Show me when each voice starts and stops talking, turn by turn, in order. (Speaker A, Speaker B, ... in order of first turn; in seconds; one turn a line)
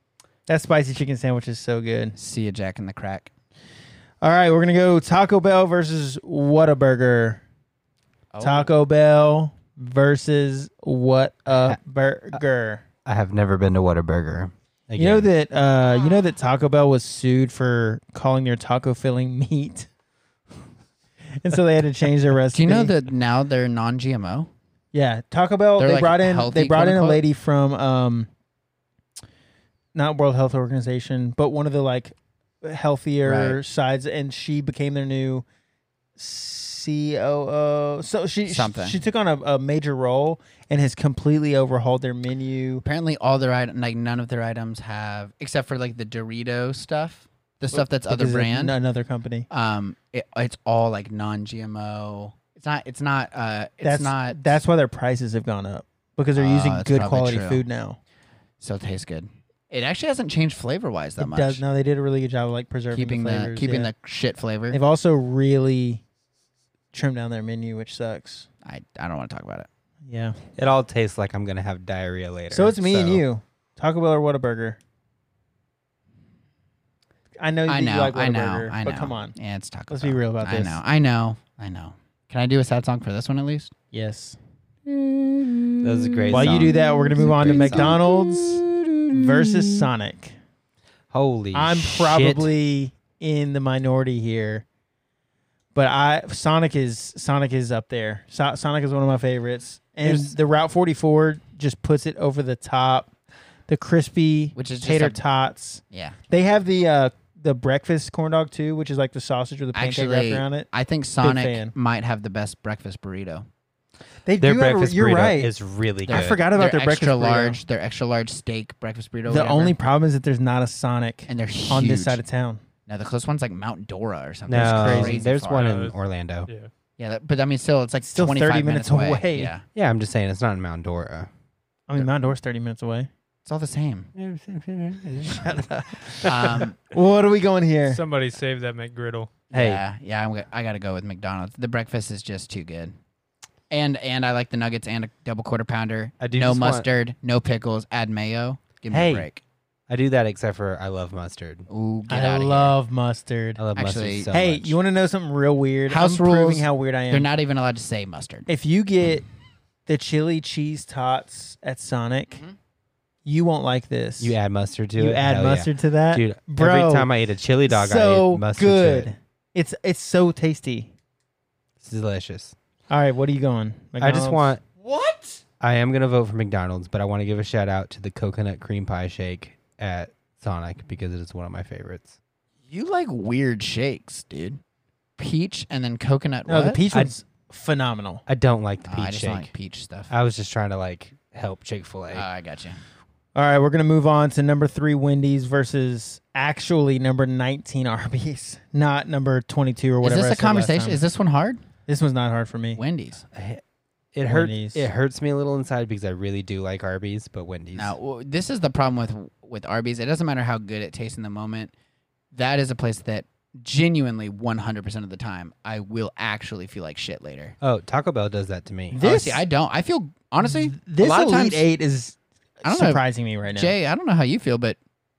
Speaker A: 0.5-2.2
Speaker B: 2.2-3.3
Speaker A: 4.2-7.4
Speaker B: 8.3-8.7
Speaker A: 8.4-12.8
Speaker C: 13.1-15.3
Speaker A: 15.0-19.9
Speaker A: 21.4-22.9
Speaker B: 22.5-24.5
Speaker A: 24.9-28.3
Speaker B: 25.8-27.2
Speaker A: 29.9-35.5
Speaker B: 33.2-33.6
Speaker A: 36.2-42.8
Speaker B: 38.5-39.0
Speaker B: 42.8-48.8
Speaker A: 47.7-49.5
Speaker B: 49.5-54.4
Speaker A: 53.8-58.0
Speaker B: 56.4-57.6
Speaker B: 58.6-61.6
Speaker A: 61.2-63.9
Speaker B: 62.9-64.8
Speaker A: 64.7-66.0
Speaker A: 66.9-68.5
Speaker B: 68.6-69.7
Speaker A: 70.1-70.4
Speaker C: 70.6-73.2
Speaker A: 72.5-74.8
Speaker A: 77.4-79.4
Speaker B: 77.7-83.7
Speaker A: 79.9-80.8
Speaker A: 83.9-84.4
Speaker B: 84.9-89.9
Speaker C: 85.8-88.0
Speaker A: 86.3-90.4
Speaker C: 91.1-92.5
Speaker A: 91.5-94.7
Speaker A: 95.7-103.1
Speaker B: 100.0-100.3
Speaker A: 103.7-110.7
Speaker B: 104.5-105.2
Speaker B: 105.9-106.2
Speaker B: 109.7-113.5
Speaker A: 111.2-111.7
Speaker A: 114.3-115.5
Speaker C: 114.4-116.4
Speaker B: 116.1-119.8
Speaker A: 116.1-117.6
Speaker A: 119.3-122.6
Speaker B: 121.3-122.2
Speaker B: 122.9-125.7
Speaker C: 124.5-126.5
Speaker A: 124.5-125.2
Speaker D: 125.5-126.0
Speaker B: 127.0-129.7
Speaker A: 128.0-129.5
Speaker C: 129.8-131.3
Speaker A: 131.9-133.1
Speaker B: 133.4-134.1
Speaker C: 134.2-135.7
Speaker A: 135.4-138.0
Speaker B: 136.2-136.8
Speaker D: 137.9-139.4
Speaker B: 139.5-142.9
Speaker C: 139.5-139.8
Speaker B: 143.7-149.4
Speaker C: 146.2-146.9
Speaker C: 148.9-149.3
Speaker C: 149.9-151.7
Speaker B: 151.7-152.8
Speaker A: 152.1-153.6
Speaker C: 153.6-154.7
Speaker B: 153.8-154.4
Speaker A: 154.3-157.3
Speaker B: 155.9-158.5
Speaker A: 158.5-159.3
Speaker A: 159.9-162.4
Speaker A: 163.2-164.4
Speaker C: 164.2-169.1
Speaker A: 165.0-167.1
Speaker A: 167.7-170.9
Speaker C: 171.8-172.5
Speaker A: 172.9-174.5
Speaker C: 174.0-174.7
Speaker B: 174.8-175.4
Speaker C: 175.6-182.2
Speaker B: 182.7-184.6
Speaker B: 185.2-186.8
Speaker A: 186.5-188.2
Speaker C: 188.3-189.5
Speaker B: 188.8-190.1
Speaker C: 190.1-192.2
Speaker B: 192.1-192.8
Speaker A: 193.3-201.0
Speaker B: 200.0-201.6
Speaker A: 201.9-202.8
Speaker B: 202.8-203.2
Speaker C: 203.3-203.6
Speaker C: 204.2-207.9
Speaker A: 204.3-204.8
Speaker B: 207.8-211.7
Speaker B: 212.3-217.5
Speaker C: 217.6-219.0
Speaker A: 218.9-219.4
Speaker B: 219.0-221.7
Speaker A: 220.4-223.7
Speaker B: 222.6-224.8